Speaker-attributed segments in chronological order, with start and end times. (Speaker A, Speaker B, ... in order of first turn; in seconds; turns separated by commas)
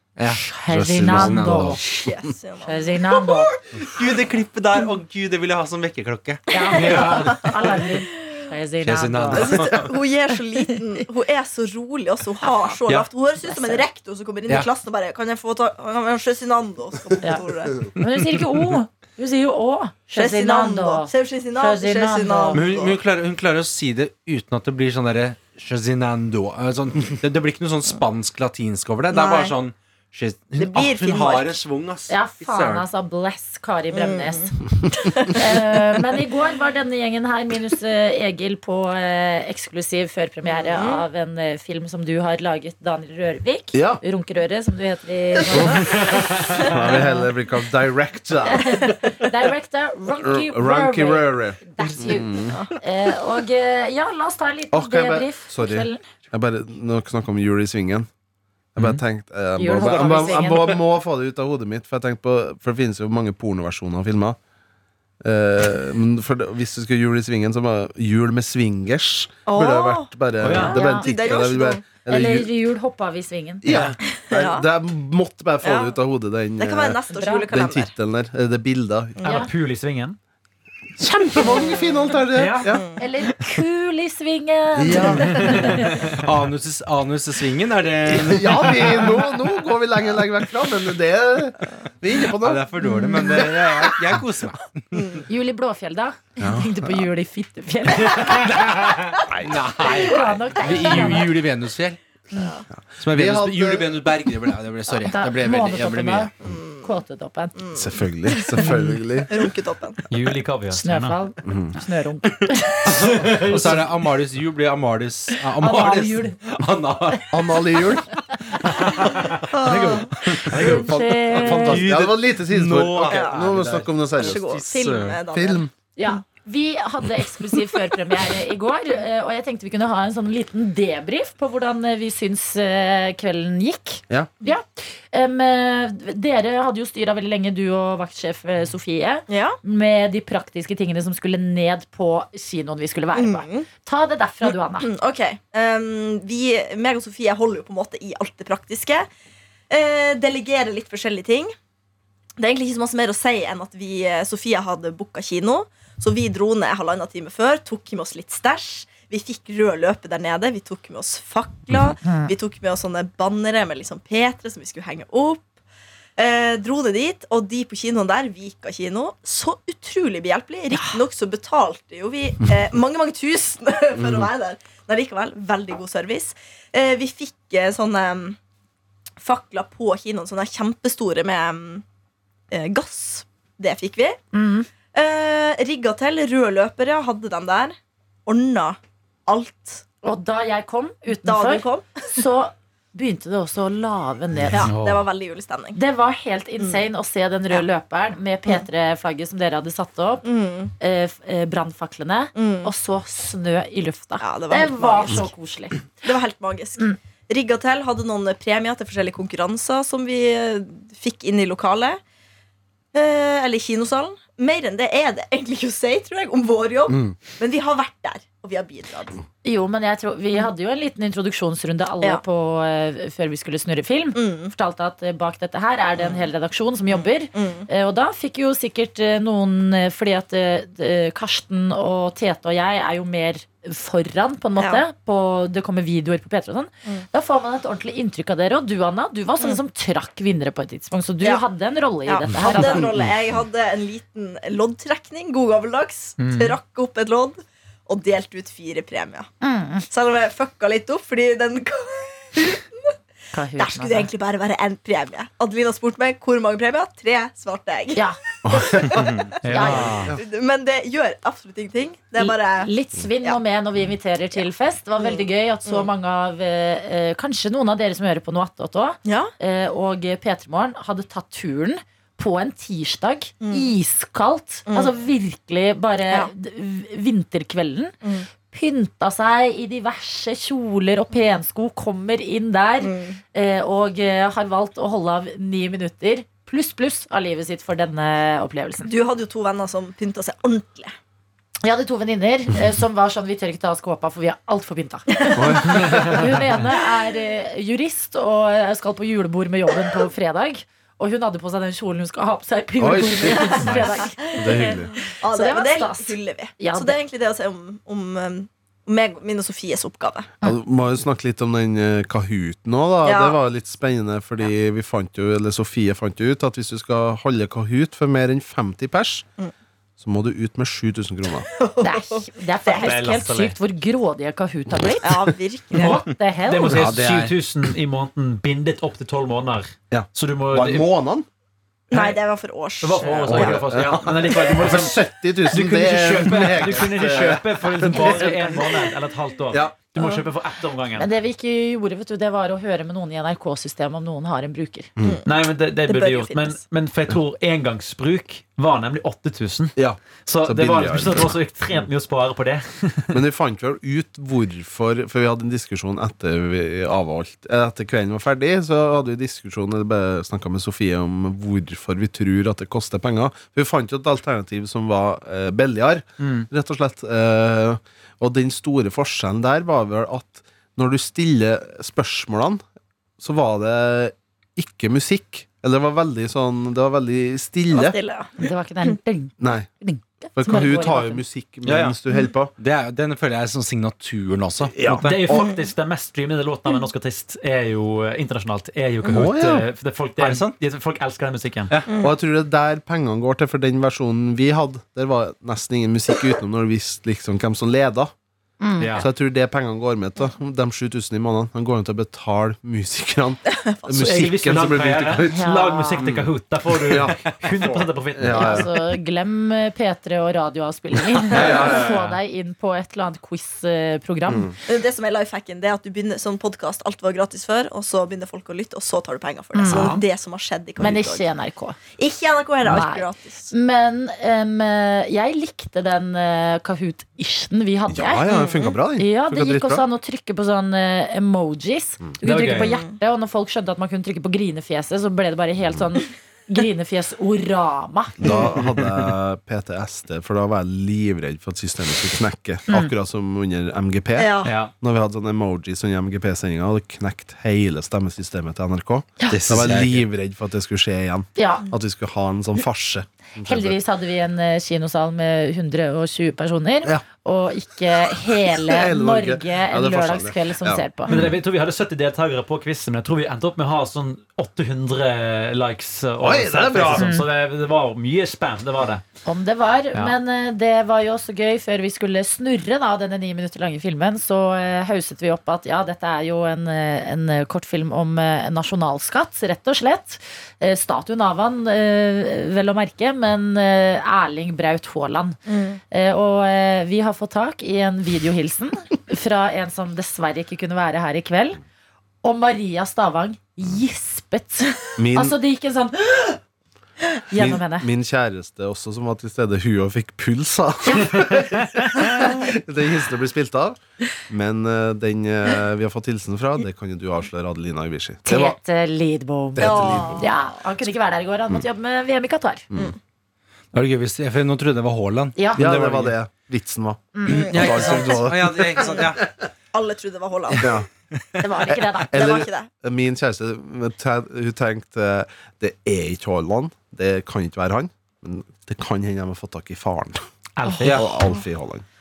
Speaker A: 0.2-1.8, Speaker B: 0.4-1.8, Speaker C: 0.7-1.8, Speaker D: 1.8-3.3, Speaker B: 2.6-3.5, Speaker A: 3.8-7.5, Speaker B: 6.5-9.7, Speaker D: 6.6-7.8, Speaker A: 8.8-9.9, Speaker D: 9.4-17.9, Speaker B: 13.4-13.8, Speaker B: 17.2-22.6, Speaker D: 20.1-23.0, Speaker A: 22.5-32.9, Speaker D: 29.1-29.5, Speaker D: 30.6-31.6, Speaker B: 32.1-34.5, Speaker D: 33.9-35.8, Speaker B: 35.4-46.1, Speaker D: 40.4-41.0, Speaker C: 43.7-44.0, Speaker C: 45.5-49.1, Speaker B: 46.8-47.2, Speaker B: 48.5-56.0, Speaker C: 50.2-52.5, Speaker D: 52.5-52.7, Speaker C: 54.7-58.1, Speaker C: 58.7-64.4, Speaker B: 59.6-60.8, Speaker C: 65.2-72.5, Speaker D: 69.5-71.8, Speaker E: 70.4-70.8, Speaker B: 70.7-71.1, Speaker B: 72.1-73.6, Speaker C: 73.6-77.0, Speaker E: 73.7-74.0, Speaker D: 74.1-74.7, Speaker D: 75.6-76.0, Speaker D: 76.6-77.9, Speaker B: 77.1-77.5, Speaker C: 77.5-79.3, Speaker D: 79.2-79.5, Speaker E: 79.2-80.2, Speaker B: 79.2-79.5, Speaker C: 81.2-82.8, Speaker D: 81.4-81.8, Speaker E: 82.3-82.6, Speaker B: 82.5-86.0, Speaker D: 82.7-83.0, Speaker C: 84.8-85.7, Speaker A: 86.1-89.1, Speaker C: 88.1-92.6, Speaker A: 92.4-95.2, Speaker B: 92.8-93.2, Speaker D: 95.0-95.2, Speaker B: 95.3-98.5, Speaker C: 96.4-96.9, Speaker A: 98.2-102.0, Speaker C: 99.3-99.6, Speaker B: 99.8-101.3, Speaker D: 102.3-102.6, Speaker C: 102.7-104.0, Speaker A: 103.0-106.3, Speaker B: 104.9-106.3, Speaker D: 106.4-106.9, Speaker B: 106.8-107.5, Speaker D: 107.5-110.0, Speaker C: 107.7-109.4, Speaker B: 108.5-108.9, Speaker E: 110.1-111.2, Speaker B: 110.8-112.9, Speaker C: 111.5-111.7, Speaker A: 112.9-117.4, Speaker E: 113.0-113.7, Speaker B: 115.6-116.4, Speaker C: 117.3-118.1, Speaker D: 119.5-120.1, Speaker E: 119.5-120.9, Speaker B: 120.8-121.8, Speaker C: 120.9-124.5, Speaker A: 121.5-125.2, Speaker D: 123.1-123.4, Speaker D: 124.2-125.6, Speaker C: 125.3-125.7, Speaker B: 126.0-144.9, Speaker D: 139.3-139.6, Speaker D: 143.1-143.7, Speaker D: 144.4-149.1, Speaker D: 149.7-151.5, Speaker D: 152.4-165.5, Speaker B: 162.0-162.3, Speaker D: 166.2-178.4, Speaker B: 170.7-171.0, Speaker C: 174.0-174.3, Speaker D: 179.2-181.8, Speaker D: 182.5-184.2, Speaker B: 184.3-184.7, Speaker D: 184.9-189.8, Speaker B: 190.0-194.7, Speaker D: 191.2-192.1, Speaker D: 194.5-195.8, Speaker E: 194.7-195.0, Speaker B: 195.7-200.2, Speaker D: 200.2-200.7, Speaker B: 200.8-206.1, Speaker D: 202.3-202.7, Speaker D: 204.2-205.3, Speaker D: 206.0-212.0, Speaker D: 212.9-219.2, Speaker C: 216.9-217.2, Speaker B: 219.4-242.9, Speaker D: 224.2-224.5, Speaker D: 226.0-226.2, Speaker D: 226.9-227.7, Speaker D: 234.6-234.8, Speaker D: 242.1-249.3, Speaker C: 242.4-243.1, Speaker E: 246.2-246.6, Speaker B: 249.4-249.8, Speaker D: 249.9-252.9, Speaker B: 253.3-254.1, Speaker D: 253.6-262.7, Speaker C: 258.4-259.0, Speaker E: 259.4-260.1, Speaker B: 259.5-260.1, Speaker B: 262.2-277.9, Speaker D: 265.0-265.9, Speaker D: 269.0-269.3, Speaker D: 273.4-273.7, Speaker D: 278.0-278.3, Speaker B: 278.5-288.9, Speaker D: 282.8-283.2, Speaker D: 288.8-290.9, Speaker B: 291.6-306.9, Speaker C: 295.3-296.4, Speaker C: 302.8-303.7, Speaker D: 303.2-310.3, Speaker C: 304.3-304.9, Speaker C: 310.4-319.2, Speaker D: 313.0-313.4, Speaker C: 320.0-321.5, Speaker D: 321.6-323.2, Speaker B: 321.8-326.8, Speaker E: 322.8-323.5, Speaker D: 325.0-325.9, Speaker E: 326.5-330.9, Speaker A: 326.7-327.3, Speaker C: 326.8-327.3, Speaker C: 329.9-331.2, Speaker E: 331.9-332.2, Speaker D: 331.9-333.6, Speaker E: 332.8-341.1, Speaker C: 333.3-338.7, Speaker D: 340.0-340.2, Speaker B: 341.0-344.9, Speaker D: 345.0-346.6, Speaker E: 345.2-353.1, Speaker C: 349.8-351.4, Speaker C: 353.1-372.6, Speaker E: 366.2-366.5, Speaker C: 373.2-377.9, Speaker D: 377.7-378.5, Speaker B: 378.4-381.2, Speaker C: 379.4-379.7, Speaker C: 380.3-382.5, Speaker A: 381.6-382.0, Speaker A: 382.6-385.4, Speaker C: 384.8-385.1, Speaker E: 385.0-391.7, Speaker D: 385.3-385.6, Speaker C: 389.1-389.6, Speaker A: 390.2-390.5, Speaker D: 391.9-392.1, Speaker C: 392.0-398.1, Speaker B: 398.6-399.0, Speaker E: 398.8-399.0, Speaker C: 398.9-408.7, Speaker D: 403.5-404.3, Speaker E: 404.0-408.7, Speaker B: 405.3-406.0, Speaker B: 408.3-414.5, Speaker C: 411.3-411.8, Speaker A: 411.5-411.8, Speaker E: 411.7-412.1, Speaker C: 414.3-414.5, Speaker D: 414.6-421.3, Speaker B: 419.5-419.9, Speaker E: 419.7-420.0, Speaker B: 420.8-421.8, Speaker D: 422.0-423.5, Speaker B: 422.6-428.3, Speaker C: 427.9-429.8, Speaker D: 428.3-428.8, Speaker B: 429.0-438.2, Speaker E: 432.2-432.7, Speaker D: 432.6-433.0, Speaker C: 438.2-453.8, Speaker D: 444.1-444.5, Speaker E: 444.4-444.7, Speaker A: 449.3-450.0, Speaker B: 451.4-451.6, Speaker B: 453.4-461.1, Speaker C: 458.6-461.3, Speaker E: 461.1-469.0, Speaker C: 466.2-467.1, Speaker B: 466.9-467.2, Speaker B: 469.2-485.4, Speaker D: 485.5-485.8, Speaker B: 485.9-491.6, Speaker B: 492.2-496.4, Speaker C: 495.0-495.4, Speaker B: 497.3-497.9, Speaker C: 497.3-508.6, Speaker B: 508.2-512.7, Speaker C: 509.5-510.2, Speaker D: 509.6-510.4, Speaker A: 513.7-516.1, Speaker C: 515.6-519.2, Speaker A: 517.3-519.2, Speaker D: 517.3-518.0, Speaker D: 519.7-520.7, Speaker C: 520.6-520.9, Speaker B: 521.4-522.4, Speaker C: 521.7-530.2, Speaker D: 522.1-522.7, Speaker E: 530.6-531.0, Speaker A: 530.8-531.1, Speaker C: 530.8-531.8